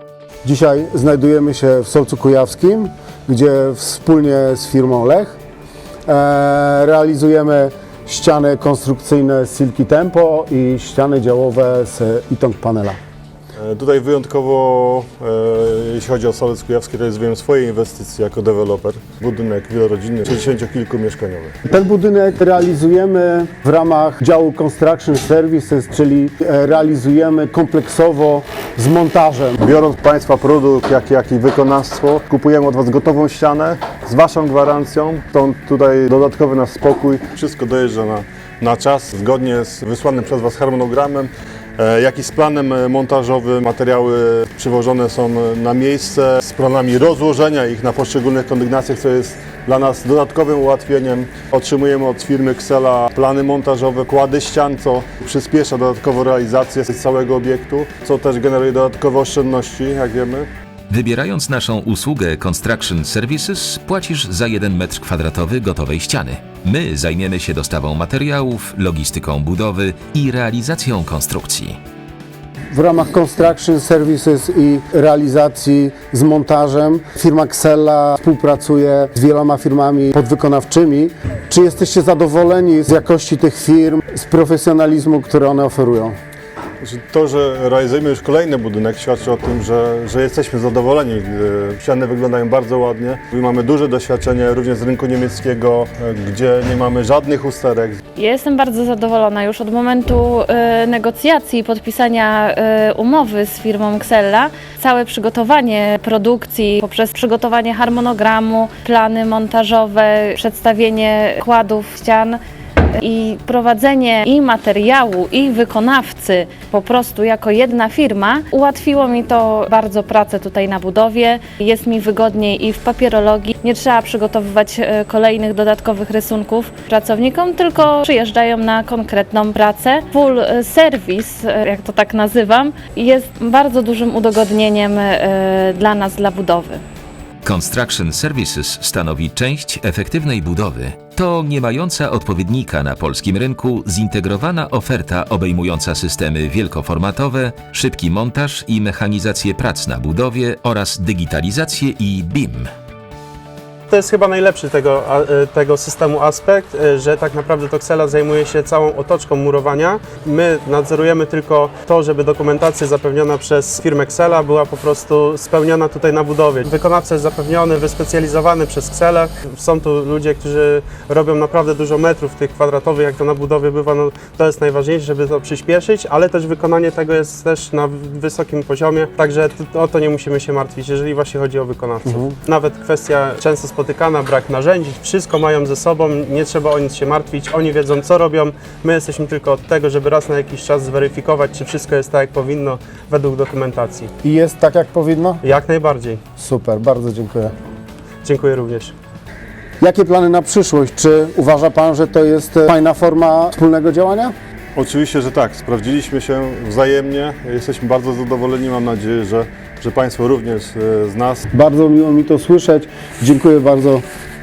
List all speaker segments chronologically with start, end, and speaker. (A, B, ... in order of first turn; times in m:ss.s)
0:00.4-0:05.3 A
0:06.1-0:13.0 A
0:13.6-0:21.5 B
0:21.6-0:29.6 A
0:29.6-1:00.5 B
1:00.9-1:11.8 C
1:12.7-1:26.2 A
1:26.8-1:38.0 B
1:38.2-1:52.4 D
1:53.0-2:16.8 D
2:17.4-2:32.7 C
2:33.9-3:14.1 E
3:14.2-3:15.4 A
3:15.4-3:16.2 E
3:16.4-3:17.5 A
3:18.2-3:18.9 E
3:19.8-3:24.3 A
3:24.7-3:31.4 B
3:31.5-3:34.0 A